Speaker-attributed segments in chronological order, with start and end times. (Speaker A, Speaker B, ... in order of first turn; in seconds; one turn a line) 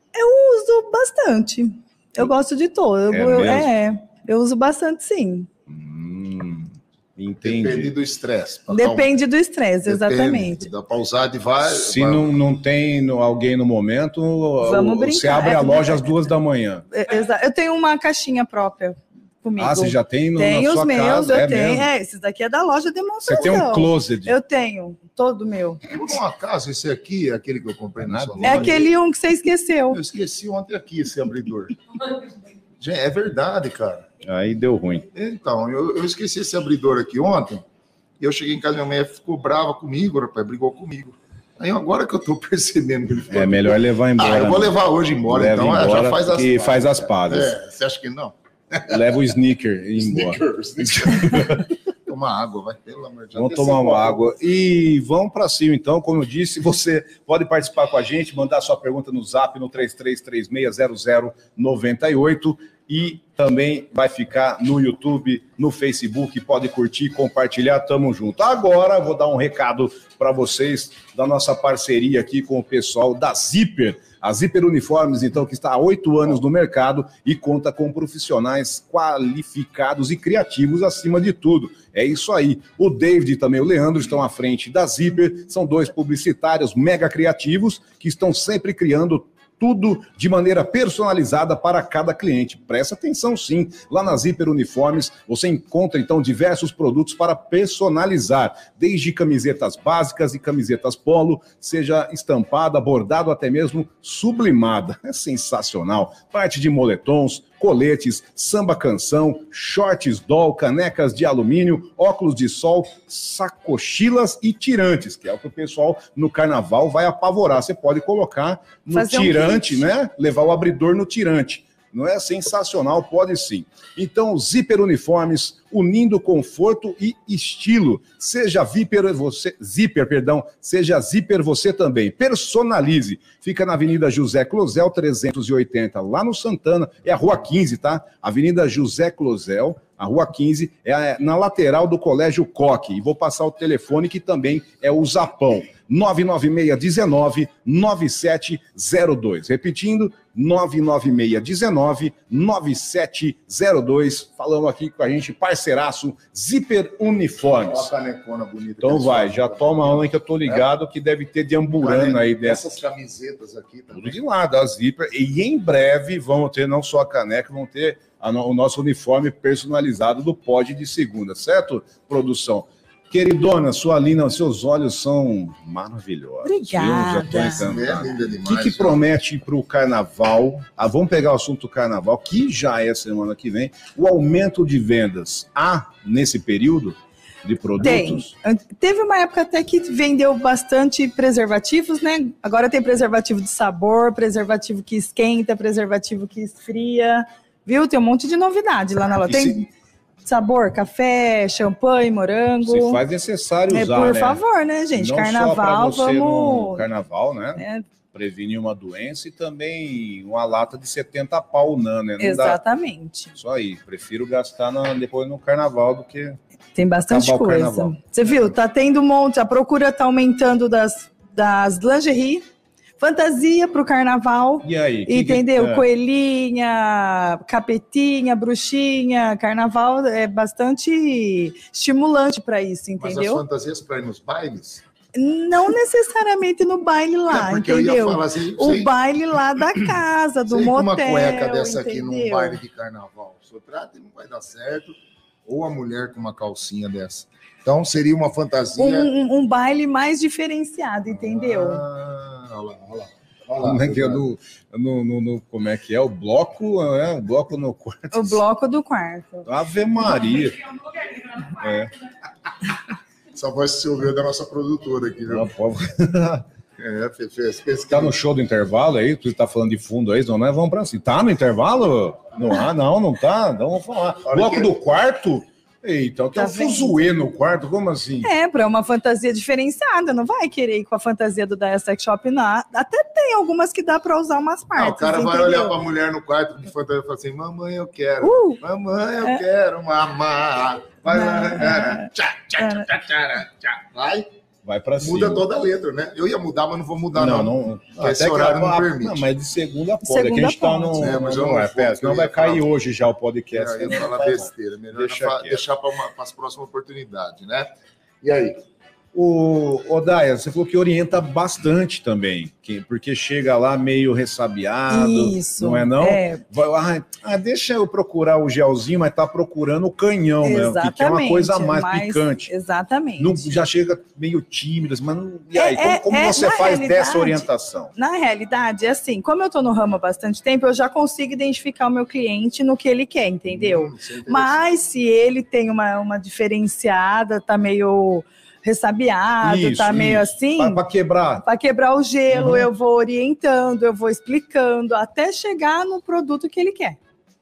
Speaker A: 0.1-5.5
Speaker B: 3.1-3.7
Speaker B: 5.7-7.9
Speaker C: 7.4-9.1
Speaker A: 8.7-10.7
Speaker C: 9.8-12.3
Speaker B: 11.6-16.8
Speaker A: 14.6-16.1
Speaker A: 16.9-25.8
Speaker B: 19.6-21.9
Speaker B: 23.2-24.4
Speaker C: 25.9-28.9
Speaker B: 28.0-28.8
Speaker A: 28.4-30.0
Speaker C: 29.9-31.8
Speaker C: 32.8-34.1
Speaker B: 34.2-35.1
Speaker C: 35.1-37.6
Speaker C: 38.2-49.0
Speaker B: 43.3-47.5
Speaker B: 48.9-51.7
Speaker C: 50.0-54.3
Speaker B: 53.3-157.9
Speaker A: 118.9-119.8
Speaker C: 157.6-160.7
Speaker B: 158.8-162.7
Speaker C: 161.8-164.2
Speaker B: 163.9-188.3
Speaker A: 176.4-177.7
Speaker C: 177.4-179.0
Speaker A: 187.8-199.7
Speaker B: 199.3-199.6
Speaker A: 200.2-203.0
Speaker B: 202.6-204.4
Speaker A: 203.7-206.8
Speaker B: 204.9-212.6
Speaker A: 207.6-207.8
Speaker A: 212.2-213.3
Speaker B: 213.3-216.4
Speaker A: 216.7-222.4
Speaker B: 217.1-217.9
Speaker A: 223.0-233.4
Speaker B: 224.6-225.8
Speaker C: 233.0-234.8
Speaker A: 235.1-242.6
Speaker C: 237.3-238.9
Speaker C: 240.5-249.1
Speaker A: 248.8-251.8
Speaker C: 251.1-254.2
Speaker B: 253.6-258.4
Speaker A: 258.1-259.5
Speaker B: 259.4-260.8
Speaker B: 261.4-261.9
Speaker C: 263.3-265.5
Speaker B: 265.3-266.4
Speaker C: 266.8-268.1
Speaker B: 267.9-278.3
Speaker C: 274.3-274.7
Speaker A: 276.4-277.0
Speaker A: 278.2-285.8
Speaker C: 284.8-294.3
Speaker A: 288.2-288.6
Speaker A: 291.1-292.9
Speaker B: 294.6-295.4
Speaker C: 295.0-299.2
Speaker B: 297.1-305.6
Speaker A: 300.1-301.2
Speaker C: 301.0-302.6
Speaker C: 303.5-307.7
Speaker C: 308.2-308.6
Speaker B: 309.1-322.5
Speaker A: 314.9-316.4
Speaker A: 320.4-323.5
Speaker B: 323.2-327.9
Speaker A: 325.5-340.8
Speaker C: 333.5-334.6
Speaker B: 339.4-341.4
Speaker A: 341.4-347.0
Speaker B: 342.3-342.7